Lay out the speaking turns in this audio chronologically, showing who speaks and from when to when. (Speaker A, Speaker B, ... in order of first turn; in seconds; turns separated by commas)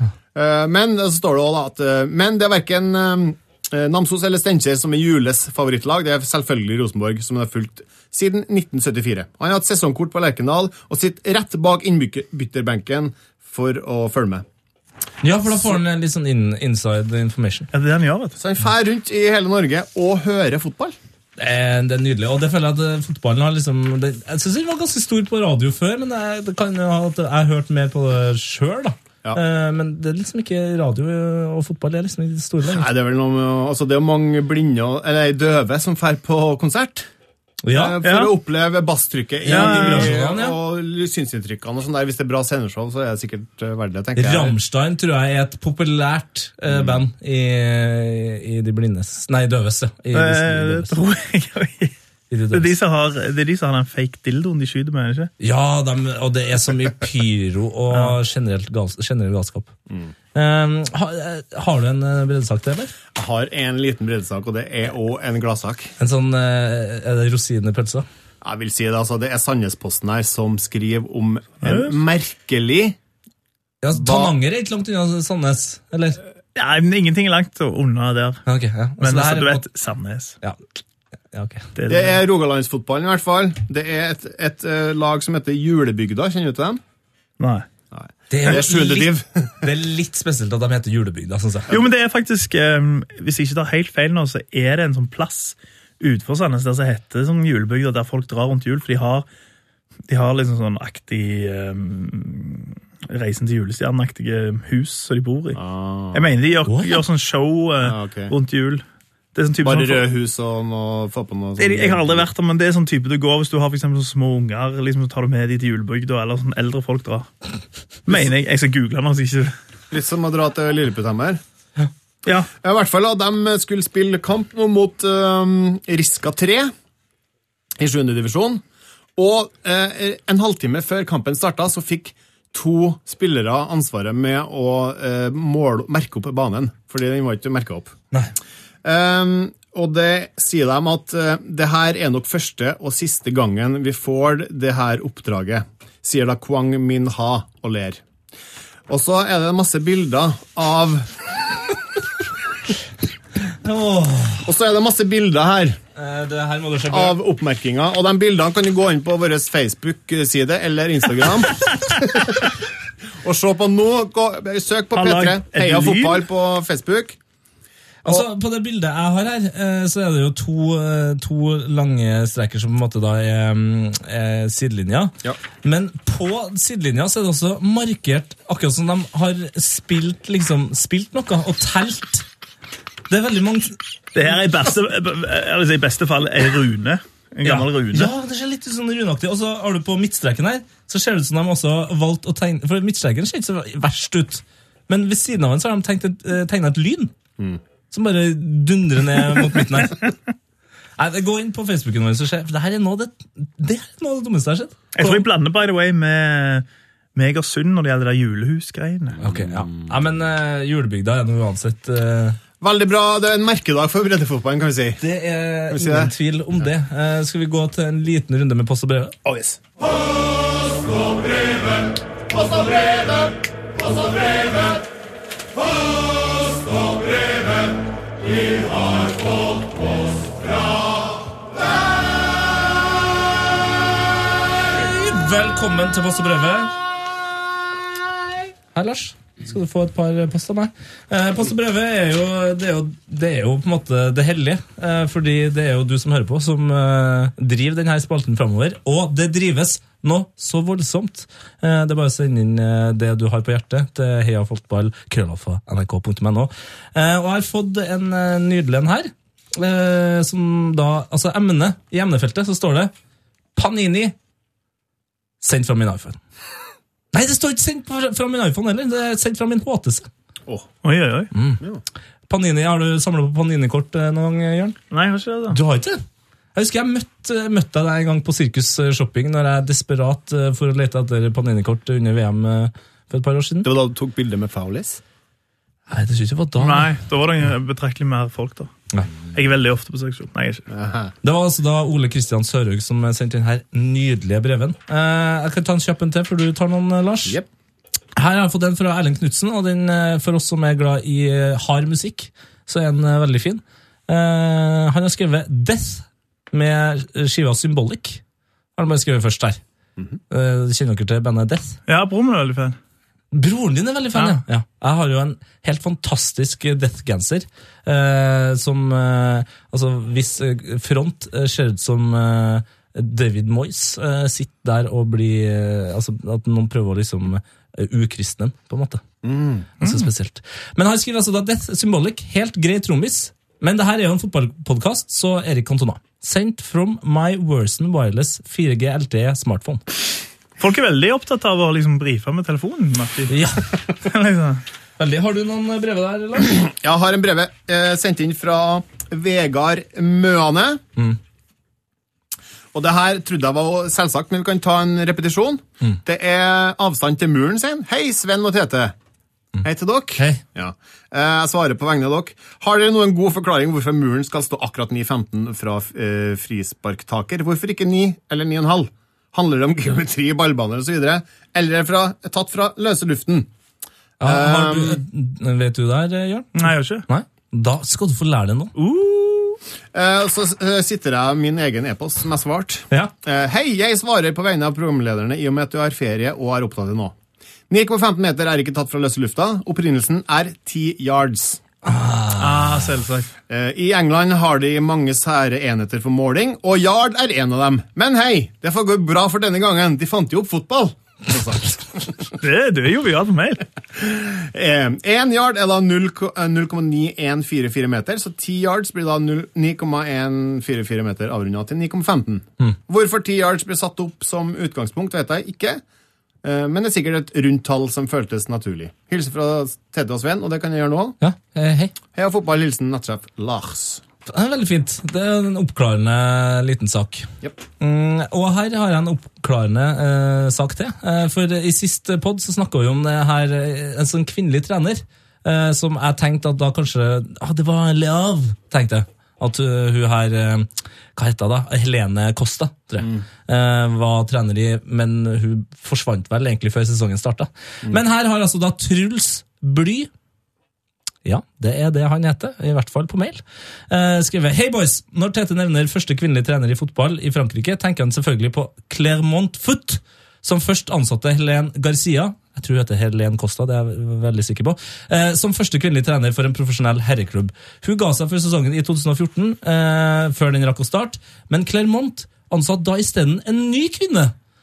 Speaker A: 0.3-14.4, Speaker B: 15.2-17.7, Speaker C: 17.7-18.4, Speaker A: 18.4-21.0, Speaker B: 21.4-32.9, Speaker A: 32.7-37.1, Speaker B: 37.6-38.0, Speaker A: 37.7-44.6, Speaker C: 38.0-38.3, Speaker B: 39.5-40.6, Speaker C: 39.5-40.2, Speaker B: 44.2-51.0, Speaker A: 46.7-47.0, Speaker C: 50.1-51.9, Speaker B: 52.3-52.8, Speaker C: 52.5-55.3, Speaker B: 55.4-59.7, Speaker B: 60.3-62.9, Speaker A: 63.1-65.9, Speaker B: 66.0-68.0, Speaker A: 68.4-73.0, Speaker C: 71.6-72.0, Speaker B: 73.8-76.2, Speaker A: 73.9-74.3, Speaker C: 76.5-78.4, Speaker B: 78.5-79.6, Speaker C: 79.0-80.4, Speaker B: 81.3-81.7, Speaker C: 81.8-82.2, Speaker A: 81.9-86.8, Speaker C: 87.4-87.7, Speaker A: 87.9-89.5, Speaker B: 88.3-91.7, Speaker C: 91.7-99.3, Speaker C: 100.1-105.6, Speaker A: 105.5-106.3, Speaker C: 106.1-110.1, Speaker B: 106.7-107.0, Speaker A: 107.8-108.3, Speaker A: 109.6-112.3, Speaker C: 111.6-117.3, Speaker C: 118.1-119.5, Speaker A: 119.9-121.4, Speaker A: 122.6-126.7, Speaker A: 127.8-128.6, Speaker A: 129.2-137.9, Speaker A: 138.8-148.0, Speaker A: 148.9-151.4, Speaker B: 153.6-154.5, Speaker A: 154.4-155.8, Speaker B: 156.0-157.2, Speaker A: 156.9-162.6, Speaker A: 163.2-167.2, Speaker C: 164.9-166.3, Speaker B: 168.0-182.3, Speaker B: 183.1-183.8, Speaker C: 184.2-188.1, Speaker B: 187.4-197.1, Speaker B: 197.9-200.2, Speaker B: 201.0-205.2, Speaker C: 204.9-209.2, Speaker A: 209.2-209.9, Speaker B: 209.2-212.4, Speaker A: 212.6-215.0, Speaker B: 215.0-219.2, Speaker A: 215.7-216.1, Speaker A: 222.3-223.0, Speaker A: 224.1-224.4, Speaker B: 234.6-236.7, Speaker B: 238.7-262.9, Speaker B: 263.6-264.1, Speaker B: 265.4-266.2, Speaker B: 267.1-270.1, Speaker C: 270.8-271.3, Speaker B: 271.3-271.6, Speaker B: 272.3-274.8, Speaker C: 274.9-275.6, Speaker B: 275.5-276.0, Speaker B: 276.6-283.7, Speaker A: 283.6-285.0, Speaker B: 285.9-286.9, Speaker C: 286.6-288.7, Speaker C: 289.3-290.7, Speaker A: 290.7-291.1, Speaker B: 291.2-297.4, Speaker B: 298.2-308.2, Speaker B: 308.8-309.6, Speaker B: 310.3-311.8, Speaker C: 311.9-312.8, Speaker B: 313.3-329.0, Speaker A: 329.2-329.7, Speaker B: 329.8-339.8, Speaker C: 329.8-330.1, Speaker C: 340.6-343.4, Speaker B: 343.3-343.8, Speaker C: 344.0-344.6, Speaker B: 345.0-346.7, Speaker A: 346.6-350.8, Speaker A: 352.7-358.9, Speaker A: 359.6-373.5, Speaker B: 360.2-360.4, Speaker B: 374.2-378.7, Speaker A: 374.2-375.0, Speaker C: 376.6-377.1, Speaker C: 378.8-379.6, Speaker A: 379.9-387.1, Speaker A: 387.7-391.6, Speaker B: 391.9-392.8, Speaker C: 392.4-393.3, Speaker A: 393.5-402.1, Speaker C: 402.4-403.6, Speaker A: 403.9-415.8, Speaker A: 416.4-421.2, Speaker B: 421.2-421.9, Speaker A: 422.1-424.0, Speaker B: 424.3-427.3, Speaker B: 427.8-450.1, Speaker B: 451.2-474.3